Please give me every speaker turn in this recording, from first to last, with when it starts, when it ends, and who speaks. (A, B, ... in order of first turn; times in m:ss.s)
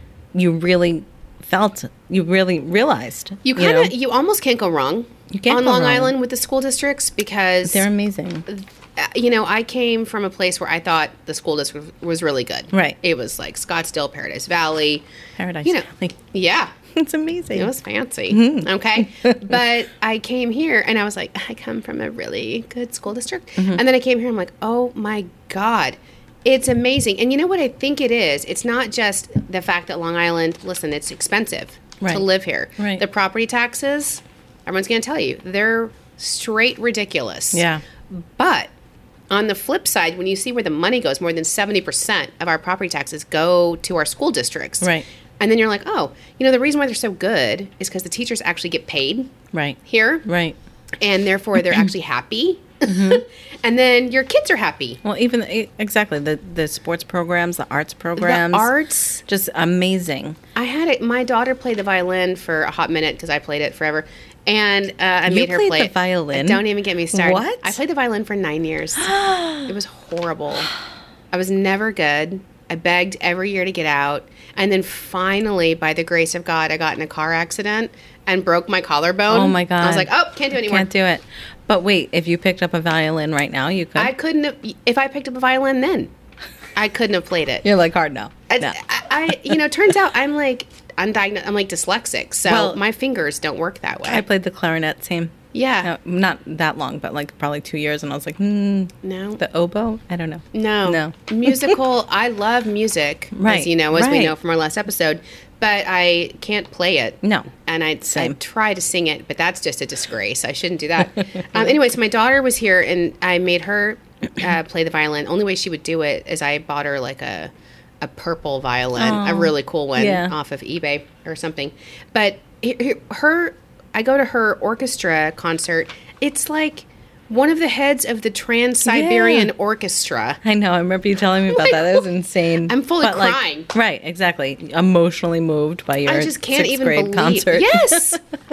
0:00.3-0:03.9 A
0:03.4-0:07.9 B
0:05.3-0:06.1 A
0:07.7-0:08.4 A
0:08.5-0:15.0 B
0:12.7-0:13.0 A
0:15.4-0:16.2 A
0:15.6-0:16.7 B
0:16.9-0:17.7 A
0:17.5-0:38.7 B
0:18.3-0:19.6 A
0:23.6-0:23.8 A
0:32.8-0:33.0 A
0:37.5-0:37.8 A
0:39.3-0:49.3 B
0:44.8-0:45.1 A
0:49.5-0:50.6 A
0:49.8-0:50.3 B
0:51.0-0:55.0 B
0:52.8-0:53.2 A
0:55.0-0:58.7 A
0:58.2-0:59.2 B
0:59.3-1:00.4 A
1:00.6-1:10.7 B
1:05.3-1:07.8 A
1:09.0-1:09.7 A
1:11.3-1:20.9 B
1:19.3-1:24.1 A
1:24.0-1:26.1 B
1:26.8-1:27.6 B
1:27.6-1:28.8 A
1:28.5-1:34.2 B
1:29.3-1:29.6 A
1:32.5-1:32.8 A
1:34.1-1:41.8 A
1:35.5-1:35.9 B
1:39.0-1:39.4 B
1:40.5-1:57.5 B
1:43.3-1:44.4 A
1:47.2-1:47.5 A
1:48.1-1:48.4 A
1:51.4-1:51.8 A
1:58.0-2:10.4 B
1:59.0-2:00.3 A
2:08.8-2:09.5 A
2:10.4-2:18.2 A
2:11.5-2:12.1 B
2:12.7-2:13.7 B
2:16.1-2:18.2 B